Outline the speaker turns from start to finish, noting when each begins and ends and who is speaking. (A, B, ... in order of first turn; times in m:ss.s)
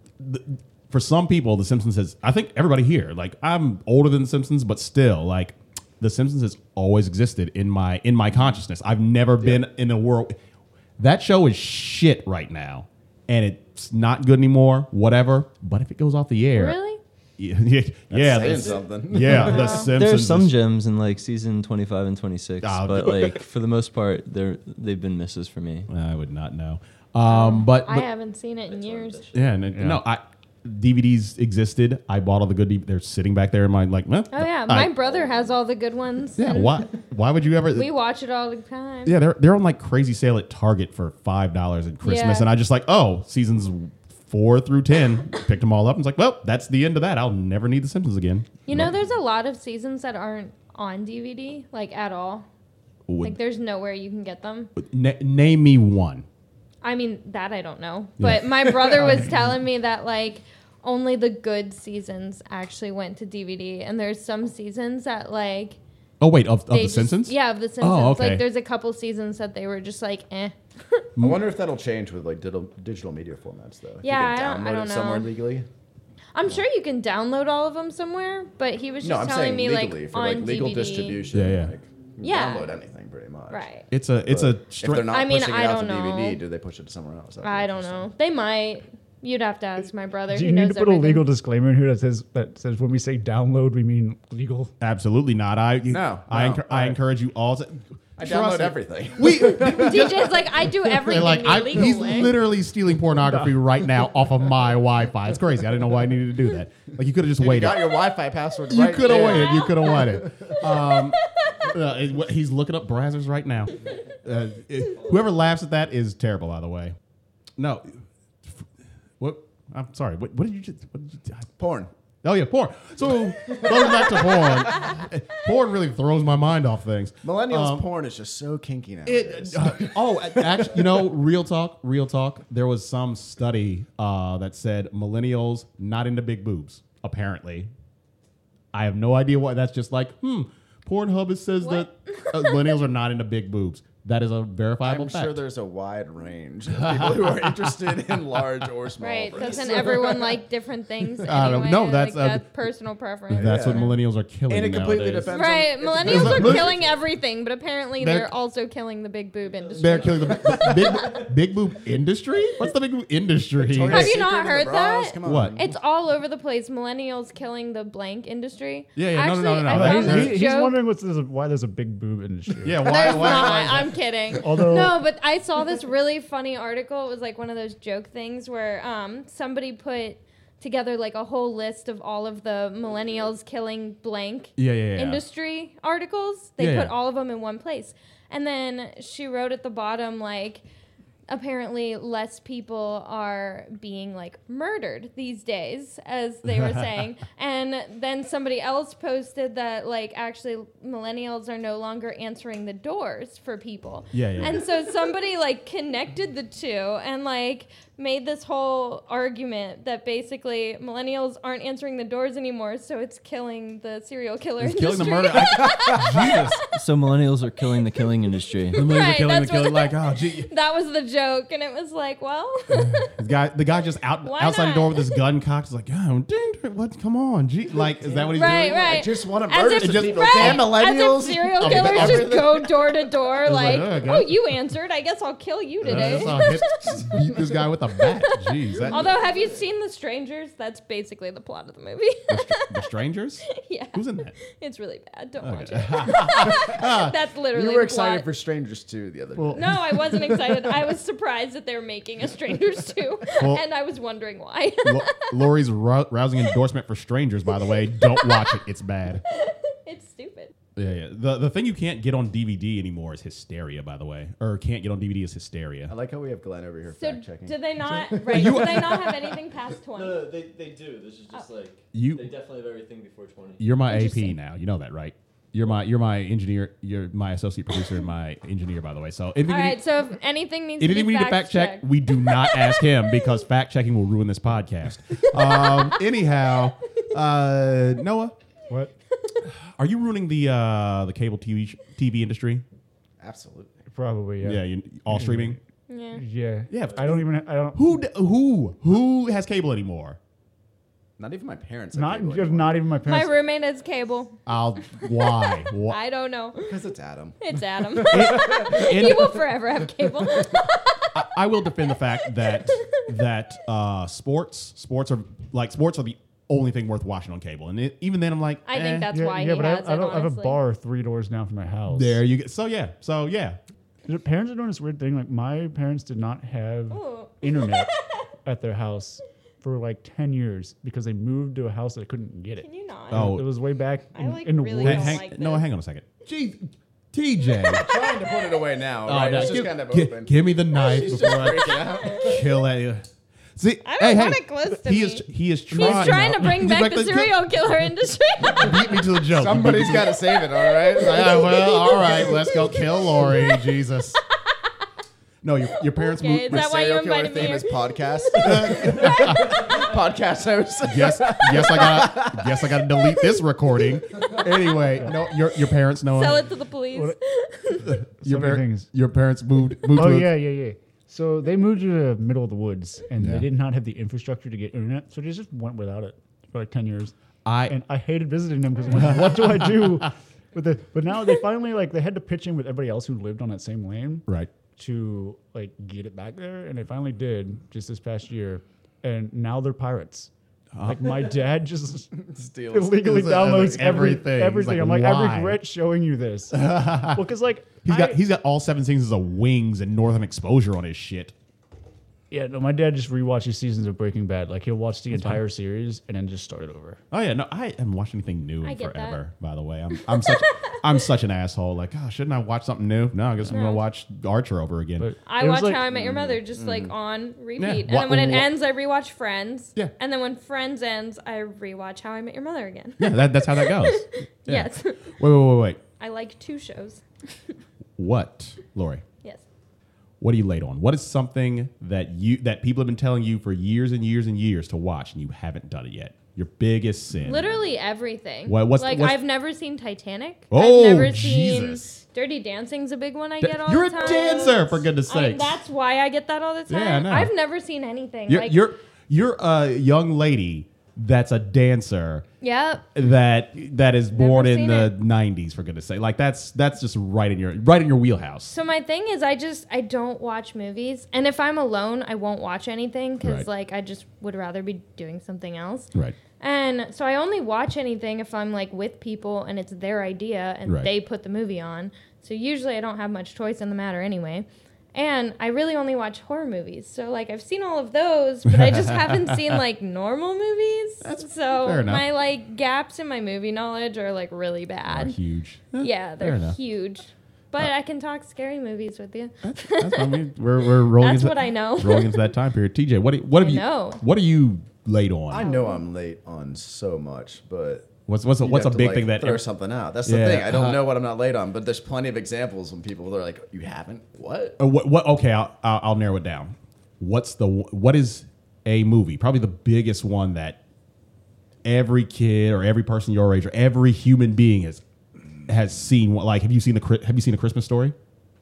0:00.2-0:10.4 A
0:11.0-0:16.8 A
0:16.5-0:17.0 B
0:17.4-0:20.5 A
0:18.1-0:19.8 C
0:19.4-0:19.9 B
0:19.9-0:25.9 D
0:22.6-0:23.4 A
0:25.9-0:28.1 A
0:27.3-0:29.3 B
0:28.7-0:29.5 D
0:29.3-0:34.9 A
0:29.7-0:30.0 E
0:34.3-0:36.8 B
0:35.1-0:35.6 D
0:36.4-0:37.9 A
0:37.7-0:39.2 B
0:39.0-0:49.0 A
0:42.0-0:42.5 B
0:48.7-0:52.5 B
0:53.1-0:53.4 A
0:53.2-0:54.7 B
0:54.8-0:56.3 A
0:56.8-1:05.8 B
0:58.2-0:59.0 A
1:06.2-1:08.4 A
1:06.7-1:11.1 B
1:11.2-1:11.5 A
1:11.2-1:15.7 C
1:14.0-1:15.3 B
1:16.4-1:21.3 B
1:19.0-1:23.7 C
1:21.3-1:21.7 A
1:22.2-1:22.8 B
1:23.5-1:23.9 B
1:23.9-1:25.2 A
1:24.3-1:28.1 C
1:25.1-1:26.4 B
1:27.4-1:31.3 B
1:30.3-1:34.7 E
1:34.8-1:47.8 A
1:35.9-1:37.0 C
1:38.2-1:40.3 C
1:39.6-1:42.4 B
1:47.4-1:50.5 C
1:48.7-1:57.0 A
1:49.1-1:49.9 B
1:51.2-1:51.6 B
1:57.6-1:58.7 A
1:59.2-2:01.5 A
2:01.6-2:01.9 C
2:02.2-2:07.8 A
2:03.5-2:04.5 C
2:04.6-2:05.0 B
2:07.2-2:11.0 C
2:09.0-2:17.7 A
2:18.7-2:25.4 A
2:21.6-2:22.7 B
2:24.8-2:30.4 C
2:26.8-2:28.0 A
2:29.0-2:34.0 B
2:31.1-2:31.7 C
2:31.2-2:32.5 A
2:33.3-2:35.3 A
2:33.3-2:33.9 C
2:34.5-2:37.0 C
2:35.3-2:40.8 B
2:36.0-2:36.7 A
2:38.0-2:38.3 A
2:39.8-2:44.2 A
2:40.4-2:40.8 C
2:43.6-2:45.8 C
2:43.8-2:50.8 B
2:45.2-2:45.6 A
2:49.0-2:50.4 A
2:49.7-2:52.9 E
2:52.6-2:53.9 A
2:52.8-3:10.6 B
2:54.4-2:55.0 E
3:04.6-3:05.2 A
3:06.6-3:06.9 A
3:11.3-3:36.6 B
3:16.5-3:16.9 A
3:24.1-3:24.6 A
3:34.6-3:36.6 A
3:36.2-3:38.8 D
3:38.7-3:43.1 B
3:38.8-3:40.5 A
3:42.7-3:49.0 A
3:44.2-3:45.2 B
3:48.0-3:52.9 C
3:48.3-3:57.1 B
3:49.7-3:50.7 A
3:51.6-3:52.4 A
3:53.4-3:54.4 A
3:55.8-3:57.3 C
3:55.8-3:59.1 A
3:58.0-4:02.8 B
3:58.8-3:59.2 C
4:02.3-4:04.4 A
4:03.5-4:08.3 B
4:05.4-4:07.1 A
4:07.5-4:10.8 C
4:09.4-4:09.7 A
4:09.5-4:15.4 B
4:14.8-4:19.2 A
4:18.0-4:18.6 B
4:19.3-4:20.5 B
4:20.8-4:25.9 A
4:25.9-4:29.2 C
4:26.9-4:30.2 B
4:28.3-4:29.2 A
4:30.0-4:33.7 D
4:31.9-4:32.3 A
4:33.6-4:39.8 A
4:33.9-4:34.4 B
4:39.5-4:42.9 B
4:40.8-4:48.4 A
4:45.5-4:46.0 B
4:49.4-4:52.6 A
4:53.2-4:53.8 C
4:53.9-4:55.6 E
4:54.4-4:55.6 A
4:55.9-4:56.2 B
4:56.1-4:57.9 E
4:56.7-5:00.2 A
5:01.2-5:02.8 C
5:01.9-5:03.4 E
5:03.0-5:04.4 B
5:04.5-5:06.0 A
5:05.8-5:06.8 B
5:06.6-5:09.1 C
5:07.4-5:13.1 B
5:08.0-5:09.4 A
5:11.1-5:19.1 A
5:18.7-5:20.6 B
5:19.1-5:22.2 E
5:21.9-5:23.6 A
5:24.1-5:27.9 E
5:26.9-5:28.3 B
5:28.4-5:35.2 E
5:32.6-5:33.4 B
5:33.1-5:33.5 A
5:34.1-5:35.6 B
5:34.8-5:37.9 A
5:37.7-5:42.4 C
5:37.9-5:38.6 B
5:39.1-5:47.4 A
5:41.7-5:42.4 B
5:43.8-5:49.1 B
5:48.5-5:50.2 A
5:49.2-5:51.8 C
5:50.5-5:53.6 B
5:50.9-5:54.2 A
5:54.3-5:54.9 B
5:55.4-5:56.7 A
5:55.8-5:58.6 B
5:56.5-6:02.6 C
5:58.4-5:59.6 A
6:00.8-6:06.4 A
6:06.1-6:08.0 B
6:06.9-6:07.2 E
6:07.8-6:10.3 A
6:08.2-6:08.9 E
6:09.9-6:17.2 E
6:13.2-6:13.5 A
6:17.4-6:17.8 A
6:17.7-6:30.3 E
6:19.0-6:20.1 A
6:30.7-6:31.3 A
6:30.8-6:32.1 E
6:32.2-6:33.8 C
6:32.7-6:38.2 E
6:33.0-6:35.6 A
6:36.5-6:37.2 A
6:37.8-6:41.3 A
6:42.3-6:47.0 E
6:45.1-6:45.4 A
6:47.1-6:55.1 A
6:48.6-6:49.2 B
6:50.0-6:50.8 B
6:53.5-6:53.9 B
6:55.0-6:55.9 E
6:55.2-7:05.2 B
6:55.9-6:56.9 C
6:57.6-6:58.5 A
7:03.0-7:05.8 A
7:06.0-7:07.6 B
7:08.0-7:09.0 A
7:10.2-7:17.6 A
7:17.2-7:28.7 B
7:18.5-7:19.2 A
7:20.5-7:22.0 A
7:23.4-7:25.6 A
7:26.7-7:27.3 A
7:28.3-7:32.2 A
7:32.4-7:32.9 B
7:33.0-7:38.6 A
7:34.1-7:34.9 B
7:38.5-8:05.2 B
7:43.2-7:43.5 A
7:58.5-7:59.4 A
8:01.0-8:02.1 A
8:04.9-8:06.6 A
8:05.8-8:12.3 B
8:09.4-8:15.5 A
8:13.3-8:14.0 B
8:15.3-8:17.9 C
8:15.4-8:15.8 B
8:18.1-8:19.4 A
8:18.4-8:24.6 C
8:20.0-8:20.9 A
8:24.6-8:30.6 A
8:31.6-8:34.8 A
8:35.5-8:38.0 A